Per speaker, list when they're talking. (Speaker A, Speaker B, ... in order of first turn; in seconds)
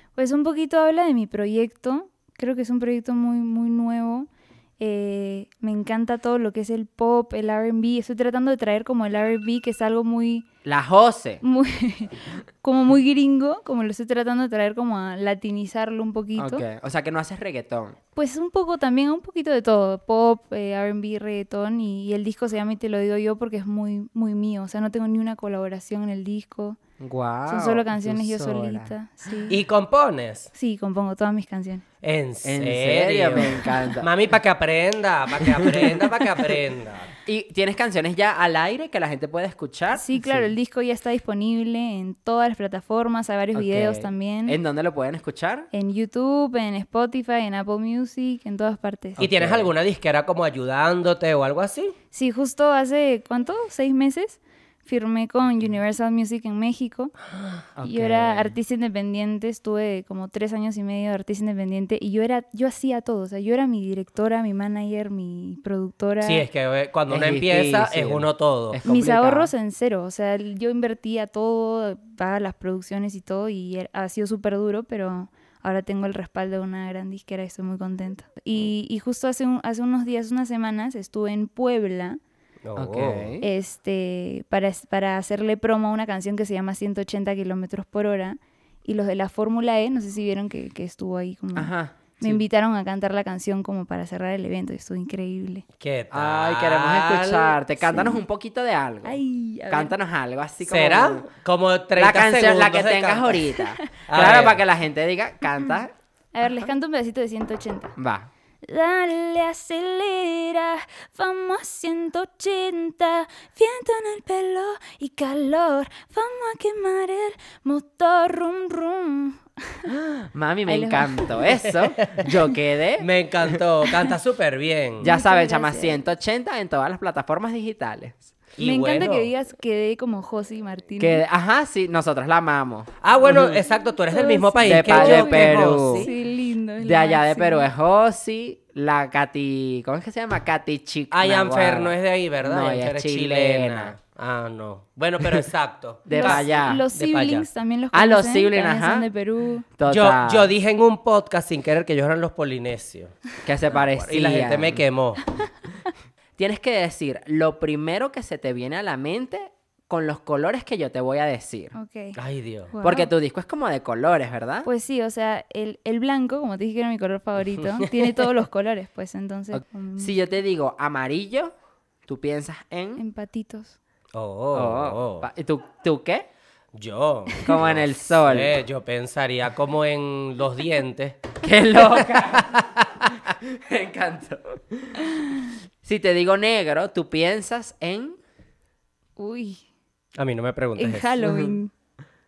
Speaker A: 0.1-10.4, 11.4-16.6, 18.1-26.8, 27.5-29.6, 30.5-31.8, 39.9-44.6, 45.7-49.2, 52.1-57.1, 57.8-66.4, 68.8-82.2, 83.4-95.6, 97.8-98.2, 99.0-99.9, 106.3-107.9, 108.6-119.9, 120.7-121.4, 125.0-126.0, 128.6-131.2, 134.0-137.7, 146.1-149.6, 161.7-162.2, 162.7-163.1, 164.6-170.2, 173.0-173.8, 189.2-189.6, 190.8-191.7
Speaker B: 10.6-11.4, 16.4-18.0, 27.0-28.9, 32.4-34.1, 35.4-36.3, 37.2-40.5, 43.5-45.7, 49.2-49.7, 57.8-58.5, 67.1-69.5, 82.8-83.5, 91.5-92.4, 96.1-101.3, 102.0-105.9, 108.0-108.3, 120.3-123.6, 125.0-128.3, 131.0-133.6, 134.6-136.1, 136.8-144.0, 146.1-146.8, 147.9-149.1, 149.8-150.5, 153.4-154.8, 156.4-161.7, 162.8-164.7, 169.5-171.5, 172.1-173.0, 174.5-176.3, 177.4-178.6, 181.4-185.1, 185.8-188.2, 191.2-191.6
Speaker C: 29.5-30.5, 32.0-37.1, 49.2-51.9, 66.2-68.8, 82.6-83.3, 95.8-97.6, 100.6-103.5, 104.1-104.6, 121.6-122.3, 123.0-125.1, 128.6-129.3, 133.0-136.1, 141.1-147.4, 149.9-153.1, 153.7-155.2, 162.2-162.7, 174.1-175.3, 176.7-181.3, 190.2-191.1